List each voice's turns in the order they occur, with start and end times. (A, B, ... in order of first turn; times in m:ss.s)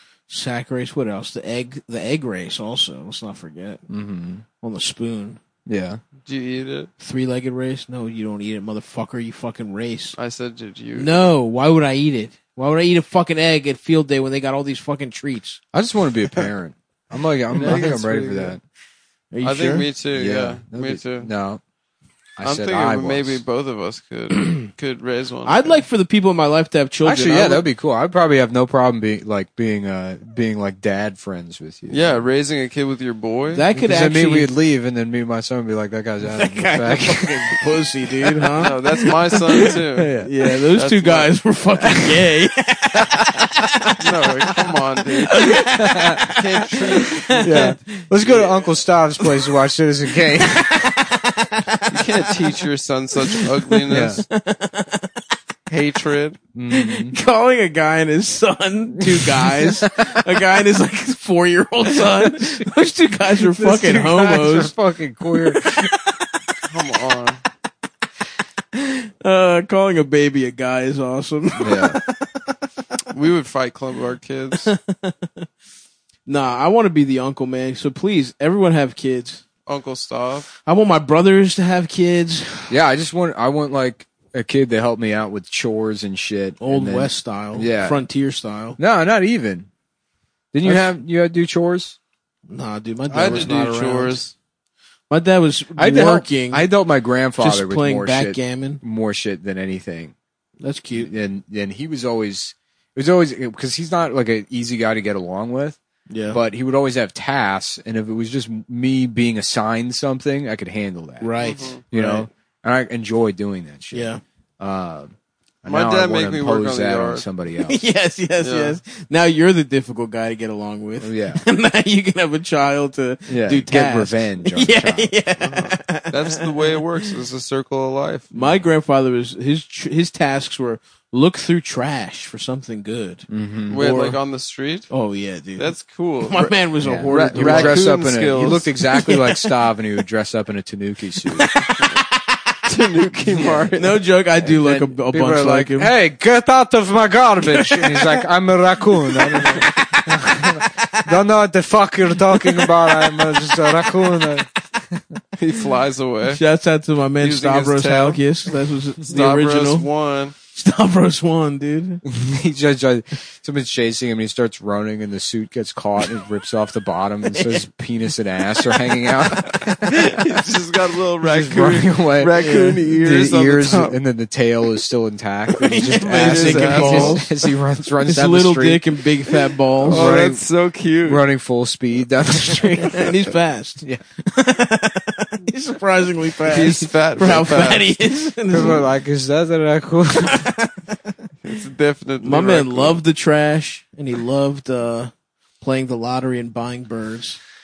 0:00.3-0:03.8 A
0:03.9-0:04.4 B
0:04.6-0:05.4 A
0:05.7-0:06.0 B
0:06.2-0:06.9 C
0:07.0-0:10.2 A
0:10.2-0:11.3 C
0:11.0-0:15.6 A
0:15.7-0:18.6 B
0:17.6-0:18.6 C
0:19.3-0:19.9 A
0:19.4-0:21.3 C
0:20.1-0:21.6 B
0:22.4-0:23.4 B
0:22.4-0:25.8 C
0:25.5-0:27.7 A
0:27.0-0:32.2 B
0:31.9-0:33.7 C
0:33.5-0:34.5 A
0:33.7-0:37.6 B
0:36.2-0:48.0 A
0:38.6-0:41.3 C
0:39.6-0:40.3 B
0:44.0-0:45.7 C
0:45.7-0:46.3 B
0:46.2-0:48.6 C
0:47.4-0:51.1 B
0:49.2-0:49.5 A
0:50.4-0:52.6 A
0:51.9-0:54.2 C
0:53.2-0:55.2 A
0:53.9-0:54.2 B
0:55.7-0:56.4 C
0:56.6-0:57.2 B
0:56.7-1:04.8 A
0:59.0-1:00.6 B
1:01.9-1:02.7 B
1:03.3-1:05.9 B
1:05.3-1:06.6 A
1:06.6-1:07.4 C
1:08.7-1:12.4 A
1:11.6-1:12.0 B
1:13.1-1:14.7 C
1:14.6-1:15.5 A
1:16.3-1:19.4 A
1:19.7-1:20.5 C
1:20.6-1:22.8 A
1:22.7-1:28.0 B
1:26.6-1:28.8 A
1:28.8-1:29.7 B
1:30.5-1:32.0 B
1:32.5-1:34.2 A
1:33.1-1:33.9 B
1:33.1-1:34.3 C
1:35.1-1:36.7 A
1:35.8-1:40.2 B
1:37.4-1:38.8 A
1:40.6-1:41.1 A
1:41.0-1:45.8 B
1:46.1-1:46.4 A
1:46.3-1:57.8 B
1:51.2-1:52.3 A
1:51.4-1:51.8 C
1:53.9-1:54.2 A
1:55.7-1:57.3 C
1:57.6-2:06.8 A
1:58.4-1:58.8 C
2:01.0-2:01.4 B
2:03.3-2:05.1 B
2:05.4-2:08.3 C
2:08.3-2:14.2 A
2:08.4-2:08.6 B
2:13.3-2:13.8 B
2:13.7-2:14.9 C
2:14.9-2:17.8 A
2:15.6-2:18.7 C
2:16.8-2:21.5 B
2:18.9-2:19.5 A
2:21.3-2:22.3 A
2:22.7-2:24.0 C
2:23.4-2:23.7 B
2:23.8-2:25.9 A
2:24.4-2:35.2 B
2:27.6-2:28.1 A
2:29.1-2:31.0 A
2:32.3-2:32.7 A
2:35.4-2:36.4 C
2:36.3-2:39.9 A
2:37.2-2:38.2 C
2:39.1-2:40.3 C
2:40.5-2:42.0 A
2:42.0-2:50.2 B
2:49.8-2:54.0 C
2:51.2-2:58.8 B
2:52.4-2:52.8 A
2:55.6-2:57.3 A
2:56.1-2:57.3 C
2:58.0-3:00.0 A
2:59.8-3:00.4 B
2:59.8-3:01.2 C
3:01.0-3:04.0 B
3:02.8-3:08.8 A
3:06.4-3:08.0 C
3:08.5-3:10.6 B
3:10.2-3:10.7 A
3:11.4-3:13.0 C
3:12.2-3:17.4 A